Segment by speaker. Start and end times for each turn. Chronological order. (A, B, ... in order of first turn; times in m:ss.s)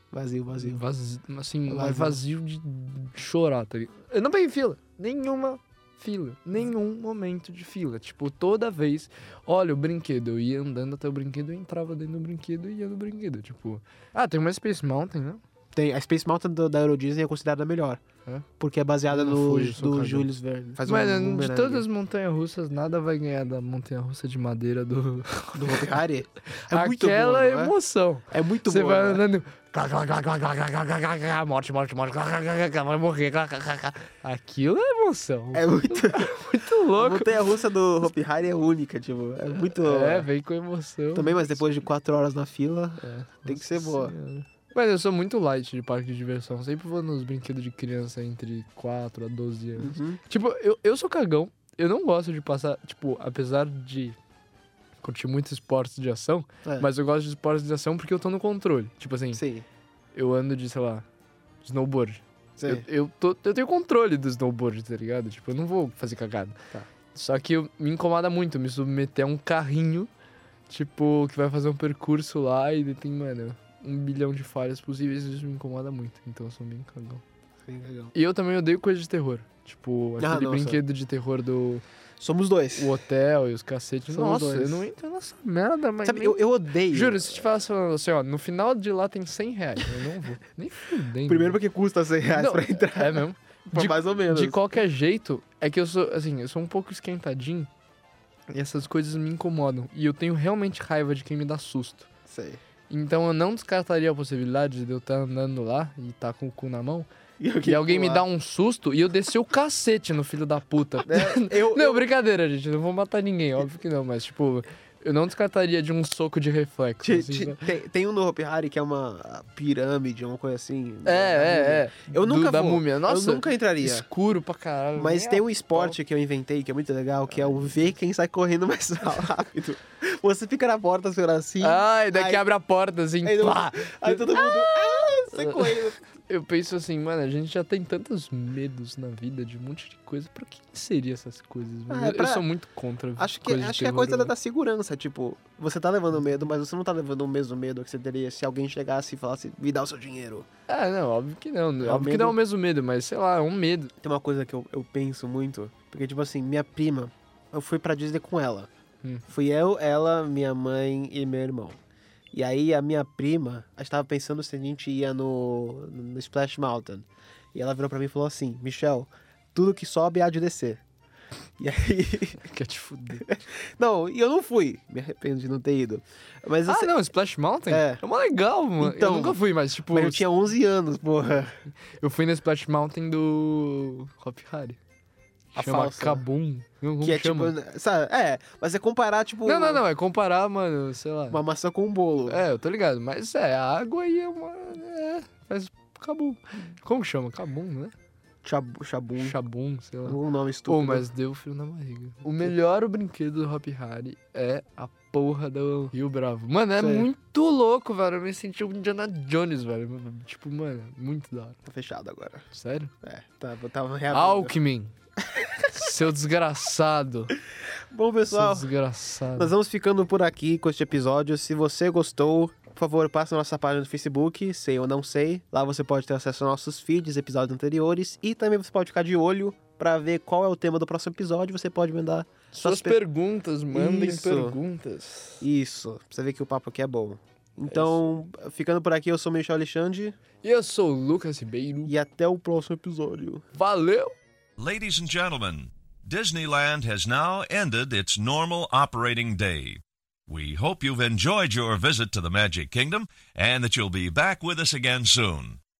0:00.1-0:00.8 A
0:00.6-0:15.4 B
0:01.7-0:02.2 A
0:15.7-0:18.0 A
0:18.6-0:21.9 A
0:19.1-0:20.3 B
0:20.8-0:25.9 B
0:25.6-0:27.8 A
0:26.5-0:37.3 B
0:28.3-0:29.2 A
0:35.5-0:36.3 A
0:37.0-0:40.3 A
0:39.6-0:41.6 B
0:41.2-0:44.2 A
0:43.0-0:54.2 B
0:49.8-0:50.2 A
0:55.0-0:59.4 B
0:59.3-0:59.7 A
1:00.1-1:01.1 B
1:01.6-1:06.6 B
1:02.6-1:02.9 A
1:07.1-1:10.1 B
1:10.7-1:17.2 B
1:17.7-1:18.1 A
1:18.1-1:21.8 B
1:20.2-1:20.8 A
1:22.2-1:22.9 A
1:22.8-1:31.6 B
1:24.1-1:24.9 A
1:26.0-1:27.4 A
1:31.3-1:34.6 A
1:32.4-1:37.7 B
1:38.5-1:42.1 B
1:42.3-1:42.6 A
1:42.9-1:47.1 B
1:47.4-1:48.2 A
1:47.6-1:57.7 B
1:51.0-1:52.1 A
1:57.0-2:04.1 A
2:01.0-2:06.0 B
2:05.0-2:12.4 A
2:11.6-2:24.3 B
2:13.2-2:16.0 A
2:21.9-2:22.4 A
2:23.2-2:30.5 A
2:30.7-2:33.9 B
2:31.8-2:32.4 A
2:34.0-2:38.7 A
2:39.3-2:41.8 A
2:42.3-2:50.8 A
2:51.6-2:52.4 A
2:52.4-2:53.3 B
2:53.2-2:56.9 A
2:56.7-3:00.2 B
2:57.7-2:58.0 A
2:58.8-3:01.5 A
3:02.0-3:04.8 B
3:05.5-3:06.2 A
3:05.6-3:07.5 B
3:07.0-3:09.8 A
3:09.5-3:11.4 B
3:11.3-3:12.4 A
3:12.3-3:17.9 B
3:18.4-3:19.4 A
3:19.2-3:31.6 B
3:20.0-3:21.1 A
3:26.8-3:27.1 A
3:31.7-3:32.5 A
3:32.5-3:32.9 B
3:33.0-3:34.5 A
3:34.1-3:34.9 B
3:35.7-3:37.4 B
3:37.9-3:38.7 A
3:38.3-3:39.5 B
3:39.4-3:53.0 A
3:52.5-3:55.4 B
3:53.7-3:54.6 A
3:55.4-4:00.2 A
3:57.7-3:58.0 B
4:00.4-4:01.9 B
4:01.9-4:03.4 A
4:03.5-4:04.2 B
4:04.6-4:15.6 C